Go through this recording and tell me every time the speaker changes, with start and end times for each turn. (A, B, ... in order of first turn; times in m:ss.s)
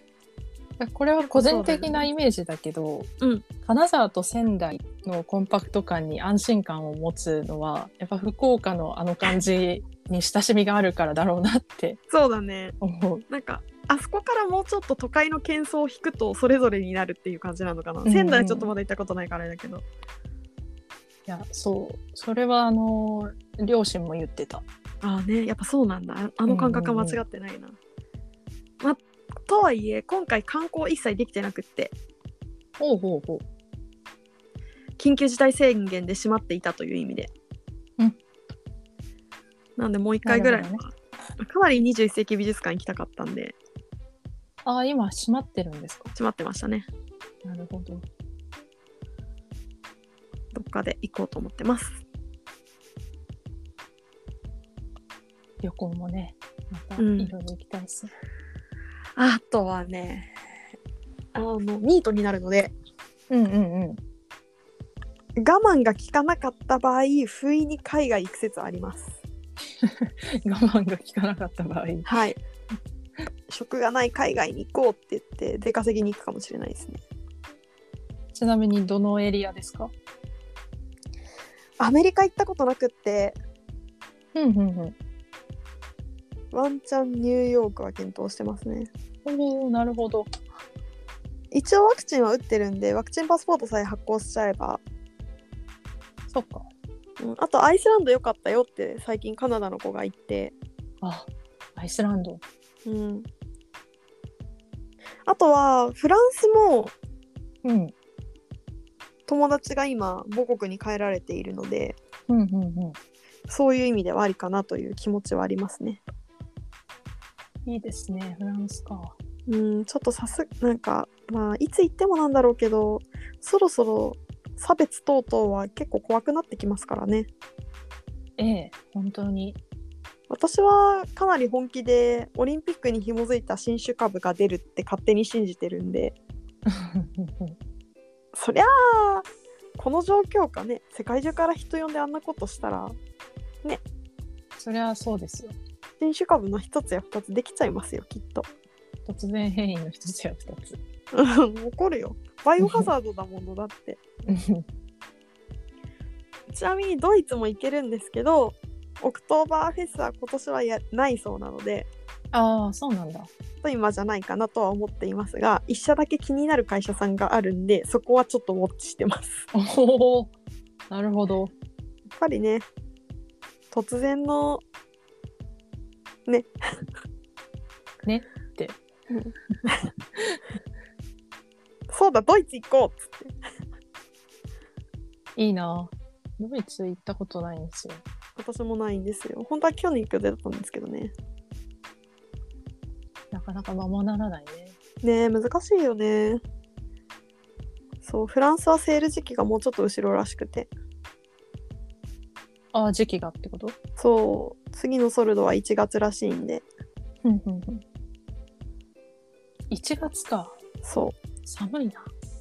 0:00.8-0:03.1 A
0:01.2-0:02.1 B
0:03.6-0:12.0 A
0:12.1-0:12.8 B
0:12.8-0:13.3 A
0:13.3-0:19.8 B
0:18.0-0:18.7 A
0:21.3-0:24.6 A
0:25.0-0:27.8 B
0:26.5-0:27.2 A
0:28.8-0:31.9 B
0:32.8-0:33.4 A
0:35.0-0:37.3 B
0:39.8-0:43.6 B
0:40.2-0:40.8 A
0:44.6-0:46.1 A
0:46.2-0:46.9 B
0:47.4-0:48.1 A
0:50.5-0:52.0 B
0:55.6-0:58.1 A
0:57.0-0:57.3 B
0:59.2-1:00.3 B
1:01.4-1:02.7 B
1:03.3-1:04.0 A
1:05.4-1:09.2 B
1:09.8-1:12.2 A
1:12.0-1:12.4 B
1:13.5-1:17.0 B
1:18.3-1:19.9 A
1:21.8-1:23.4 B
1:24.3-1:25.0 A
1:26.5-1:28.9 B
1:29.2-1:30.3 A
1:31.5-1:34.8 B
1:36.3-1:36.7 A
1:37.2-1:40.5 B
1:41.0-1:42.4 A
1:42.9-1:43.3 B
1:45.3-1:46.9 B
1:47.6-1:47.9 A
1:49.3-1:52.0 B
1:52.3-1:53.0 A
1:53.5-1:56.0 B
1:57.7-1:59.2 A
1:59.5-2:07.3 B
2:08.4-2:09.6 A
2:10.3-2:16.2 B
2:16.7-2:17.6 A
2:18.4-2:19.3 B
2:19.8-2:23.0 B
2:24.6-2:25.6 A
2:26.0-2:28.5 B
2:29.1-2:30.8 A
2:31.1-2:34.0 B
2:32.6-2:32.9 A
2:34.2-2:34.6 A
2:36.5-2:41.9 B
2:42.3-2:43.3 A
2:43.6-2:49.5 B
2:49.5-2:50.3 A
2:50.9-2:51.5 A
2:52.2-2:52.7 B
2:53.7-2:54.6 B
2:58.0-2:58.8 A
2:59.1-2:59.8 B
3:01.9-3:03.4 B
3:05.4-3:08.0 A
3:08.4-3:11.1 B
3:13.3-3:14.8 A
3:15.0-3:16.4 B
3:18.0-3:20.7 B
3:22.7-3:23.8 A
3:24.0-3:26.6 B
3:27.2-3:27.8 A
3:29.7-3:30.6 A
3:30.8-3:31.2 B
3:31.5-3:32.1 A